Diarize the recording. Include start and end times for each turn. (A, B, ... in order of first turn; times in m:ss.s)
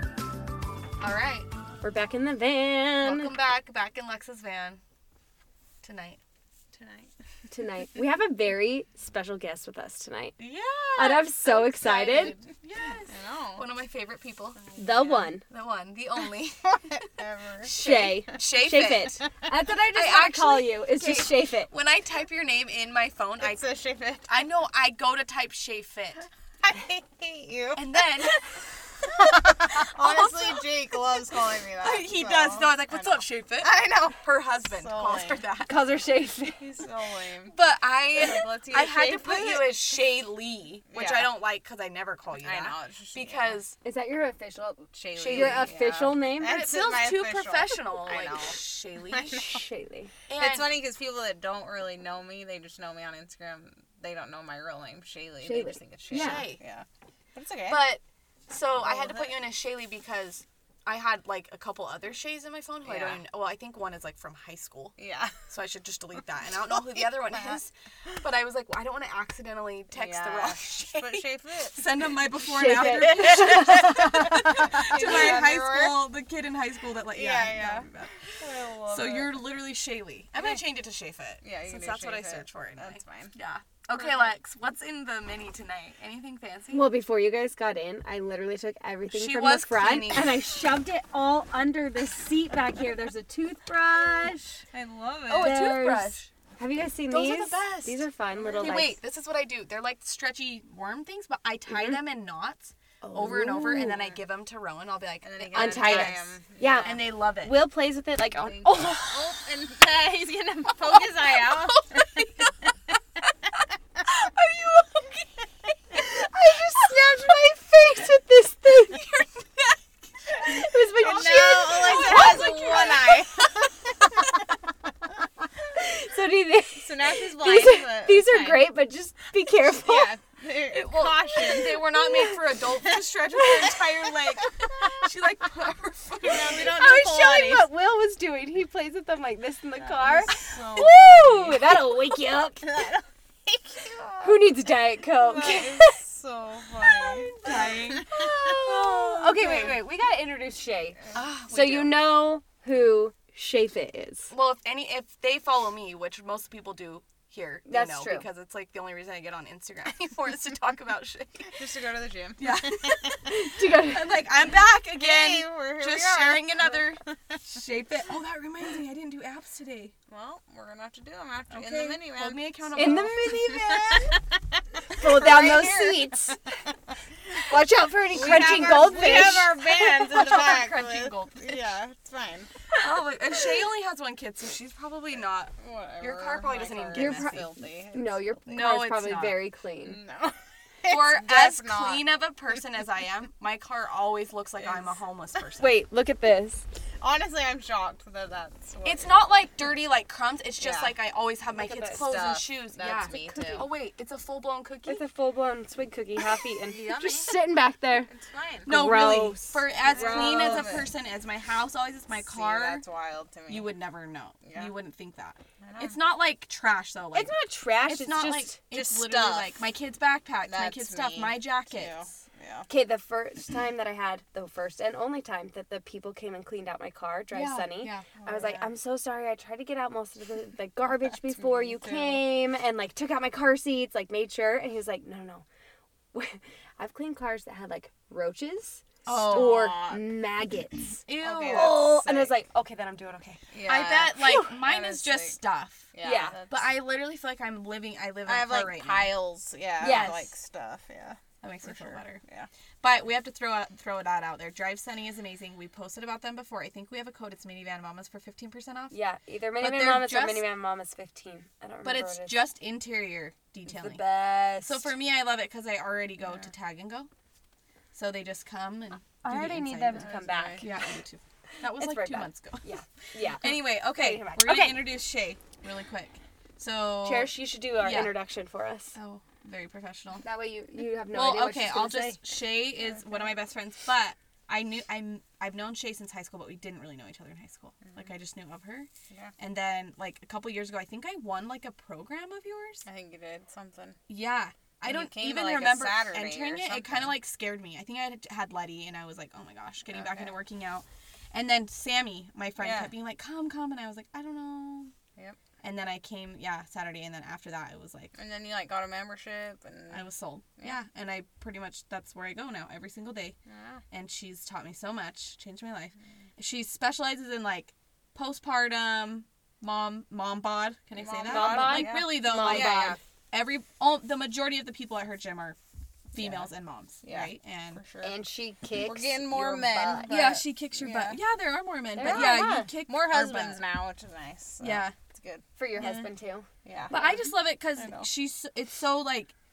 0:01.0-0:01.5 A
0:01.8-0:03.3 B
0:03.0-0:04.8 A
0:05.8-0:06.2 A
0:06.7-0:07.1 A
0:07.5-0:10.4 B
0:10.4-0:14.6 A
0:11.0-0:12.4 B
0:13.0-0:13.7 C
0:14.6-0:15.3 C
0:14.8-0:15.4 B
0:15.5-0:16.8 A
0:16.6-0:18.3 C
0:17.6-0:19.2 A
0:17.7-0:21.7 B
0:19.9-0:23.6 A
0:23.4-0:24.4 C
0:24.3-0:26.3 A
0:26.6-0:28.4 C
0:27.7-0:35.7 A
0:29.0-0:35.4 C
0:35.6-0:36.6 B
0:36.6-0:37.6 C
0:37.5-0:43.8 A
0:38.2-0:40.0 C
0:40.9-0:41.3 C
0:42.3-0:43.6 C
0:43.8-0:46.5 B
0:44.9-0:49.6 C
0:45.1-0:45.8 A
0:46.4-0:49.4 A
0:49.3-0:50.1 B
0:50.3-0:50.8 A
0:50.4-0:57.8 C
0:55.4-0:56.5 B
0:56.1-0:56.6 A
0:57.7-1:04.9 A
1:02.8-1:03.2 C
1:05.0-1:05.5 C
1:05.5-1:18.3 A
1:06.7-1:08.1 C
1:09.9-1:12.1 C
1:12.4-1:14.9 B
1:12.7-1:13.5 C
1:14.3-1:16.0 C
1:17.1-1:19.3 C
1:18.8-1:26.8 A
1:21.4-1:23.3 C
1:23.9-1:24.3 C
1:26.7-1:34.6 B
1:29.1-1:30.4 A
1:34.7-1:35.6 C
1:35.3-1:36.3 A
1:35.3-1:39.0 B
1:37.1-1:46.3 A
1:41.7-1:42.0 B
1:43.0-1:44.0 B
1:45.2-1:47.0 C
1:45.5-1:49.3 B
1:46.8-1:47.5 A
1:48.4-1:52.7 C
1:50.9-1:52.5 A
1:54.1-1:56.0 A
1:56.0-1:59.1 B
2:00.4-2:03.1 B
2:01.0-2:04.3 C
2:01.0-2:03.1 A
2:05.7-2:10.1 B
2:06.8-2:08.7 C
2:09.8-2:12.3 C
2:10.7-2:16.8 A
2:12.9-2:13.8 C
2:16.2-2:17.6 C
2:16.5-2:22.7 B
2:19.8-2:21.9 C
2:22.6-2:24.5 C
2:24.2-2:26.0 B
2:25.2-2:29.8 C
2:26.8-2:29.8 A
2:28.4-2:31.0 B
2:31.1-2:31.9 A
2:31.5-2:34.3 B
2:34.3-2:41.6 A
2:37.6-2:38.2 B
2:41.5-2:43.4 C
2:42.4-2:49.9 A
2:43.2-2:44.2 B
2:44.9-2:47.4 C
2:50.1-2:54.2 C
2:51.5-2:54.1 A
2:52.7-2:54.0 B
2:54.8-2:56.7 C
2:54.9-2:56.4 B
2:55.2-2:55.6 A
2:57.5-2:59.5 B
2:58.1-3:02.6 C
2:58.1-3:01.6 A
3:02.8-3:07.4 A
3:05.6-3:08.2 C
3:06.9-3:10.0 B
3:08.5-3:09.4 A
3:09.8-3:12.2 C
3:10.9-3:15.8 A
3:14.6-3:15.0 C
3:15.6-3:16.6 B
3:17.0-3:19.1 C
3:18.8-3:25.0 A
3:20.6-3:21.0 C
3:21.7-3:23.7 C
3:22.9-3:23.7 B
3:24.9-3:28.1 B
3:26.7-3:27.4 C
3:28.1-3:29.2 C
3:28.6-3:32.8 A
3:28.7-3:30.7 B
3:29.8-3:30.9 C
3:32.2-3:33.7 C
3:33.5-3:37.3 A
3:34.4-3:34.7 C
3:35.6-3:36.0 C
3:37.1-3:38.6 B
3:37.8-3:42.0 A
3:38.7-3:39.6 C
3:40.4-3:42.7 C
3:42.7-3:55.4 B
3:47.3-3:48.0 A
3:48.0-3:48.7 C
3:51.4-3:52.2 C
3:56.1-4:03.4 B
3:59.0-3:59.6 A
3:59.1-4:00.0 C
4:01.0-4:02.3 A
4:01.2-4:01.8 C
4:03.5-4:05.4 C
4:03.6-4:05.9 A
4:05.9-4:06.6 C
4:06.0-4:06.4 B
4:06.5-4:09.1 A
4:08.2-4:12.5 C
4:09.8-4:10.3 B
4:09.8-4:10.1 A
4:11.4-4:12.2 A
4:12.8-4:18.9 A
4:18.9-4:22.4 B
4:19.6-4:20.5 A
4:21.8-4:24.0 A
4:23.7-4:24.9 B
4:24.6-4:27.1 A
4:27.9-4:30.0 A
4:29.2-4:30.7 B
4:29.9-4:30.6 C
4:30.6-4:32.7 A
4:31.8-4:34.9 B
4:33.3-4:38.1 A
4:37.0-4:38.9 B
4:38.9-4:40.2 A
4:40.2-4:42.2 B
4:41.1-4:52.8 A
4:47.8-4:48.1 C
4:52.8-4:54.0 C
4:54.1-5:04.9 A
4:54.8-4:57.2 C
4:59.9-5:00.4 C
5:02.6-5:02.9 C
5:05.6-5:08.1 A
5:08.1-5:10.0 C
5:09.9-5:13.4 A
5:13.5-5:13.8 C
5:13.9-5:25.6 A
5:20.9-5:23.0 C
5:21.3-5:23.0 B
5:26.1-5:27.8 A
5:27.0-5:28.1 C
5:28.0-5:30.1 B
5:28.8-5:31.2 C
5:30.0-5:33.6 A
5:32.0-5:32.7 B
5:32.0-5:35.4 C
5:34.6-5:34.9 A
5:35.6-5:37.2 B
5:35.8-5:36.1 A
5:36.6-5:37.0 C
5:36.9-5:39.3 A
5:37.7-5:38.1 C